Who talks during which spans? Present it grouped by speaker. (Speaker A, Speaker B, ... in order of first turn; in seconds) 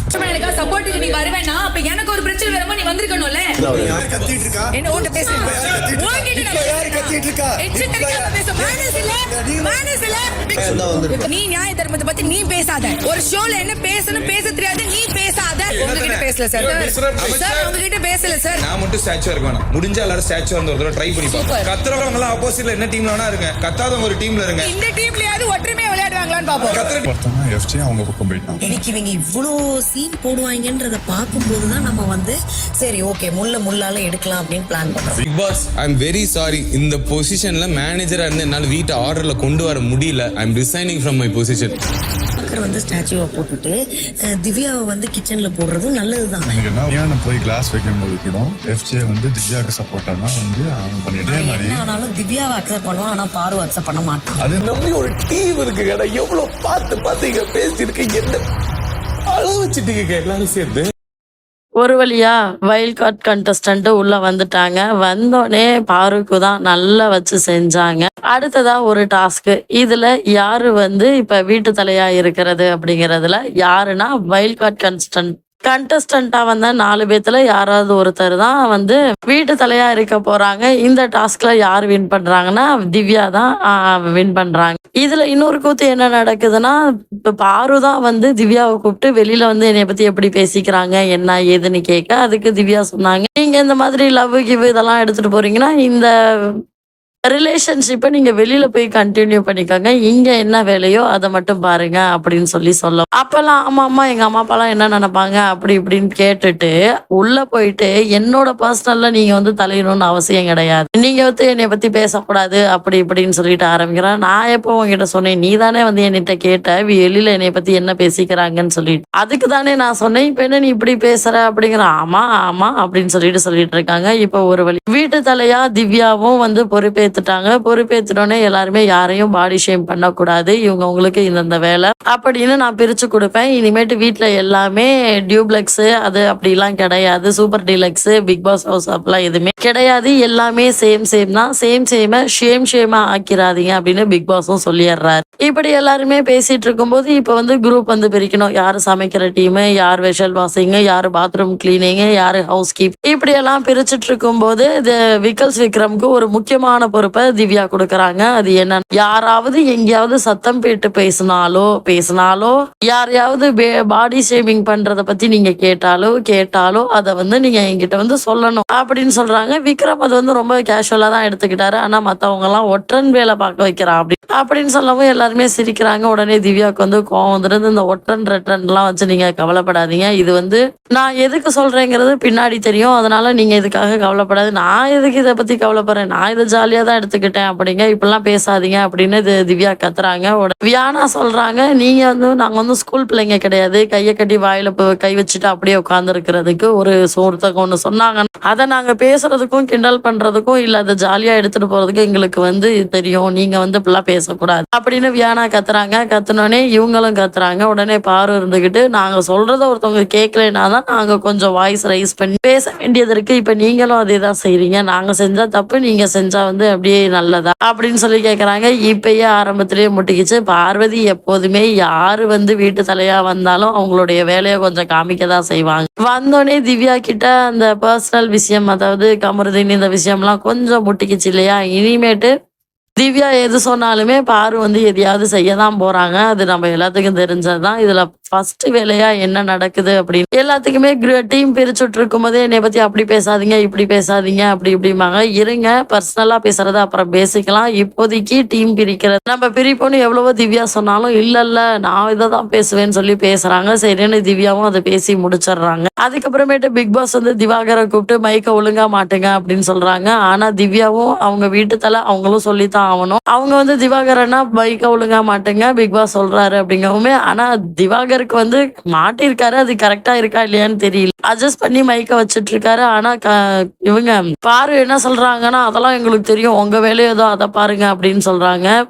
Speaker A: 0.1-3.9, 4.7-18.6, 21.2-21.7, 24.6-26.9
Speaker B: 5.4-5.9, 15.7-17.8, 18.6-24.7, 26.6-27.1
Speaker C: 26.8-28.6, 46.5-51.8, 54.4-54.7
Speaker D: 28.6-35.2, 42.4-43.8, 44.3-46.6, 51.3-54.4
Speaker E: 35.3-41.8
Speaker F: 54.6-58.4, 59.3-60.9
Speaker G: 61.8-86.8, 87.3-96.5, 97.3-232.3, 233.0-278.7